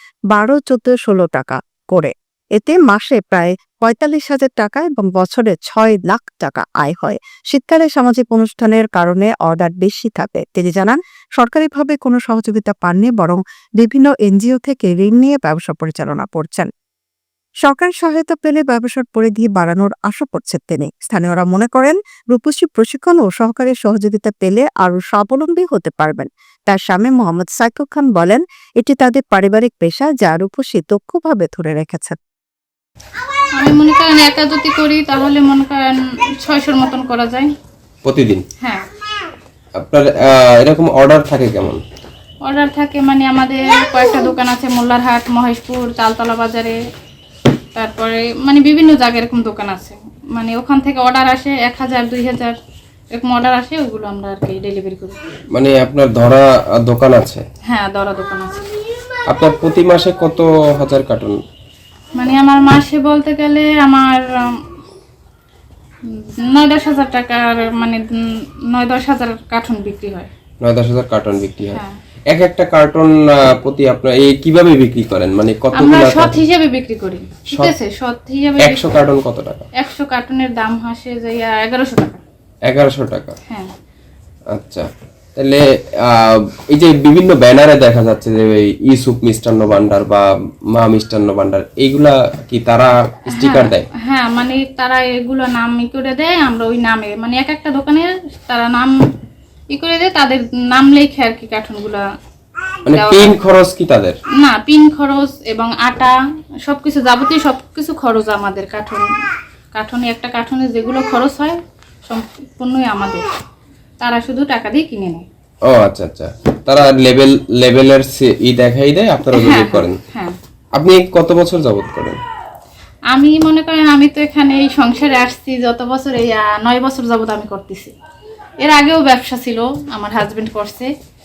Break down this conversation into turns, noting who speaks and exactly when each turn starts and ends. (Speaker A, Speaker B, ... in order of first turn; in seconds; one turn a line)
Speaker A: 0.3-16.7
Speaker A: 17.6-32.2
Speaker B: 33.6-37.5
Speaker C: 38.0-38.4
Speaker C: 39.8-41.8
Speaker B: 42.5-46.8
Speaker B: 47.7-52.5
Speaker B: 53.1-55.2
Speaker C: 55.5-57.4
Speaker B: 57.7-58.7
Speaker C: 59.3-61.4
Speaker B: 62.1-64.6
Speaker B: 66.1-68.1
Speaker B: 68.7-70.3
Speaker C: 70.6-71.8
Speaker C: 72.3-76.4
Speaker B: 75.8-78.8
Speaker C: 78.6-79.6
Speaker B: 79.8-82.2
Speaker C: 82.7-83.4
Speaker C: 84.5-93.9
Speaker B: 93.3-98.9
Speaker B: 99.7-102.0
Speaker C: 102.9-104.2
Speaker B: 102.9-103.4
Speaker B: 104.4-106.1
Speaker B: 106.7-109.1
Speaker B: 109.7-113.2
Speaker B: 114.0-115.2
Speaker C: 115.7-120.0
Speaker B: 119.3-120.3
Speaker C: 120.8-122.2
Speaker B: 123.1-127.9
Speaker B: 128.6-130.9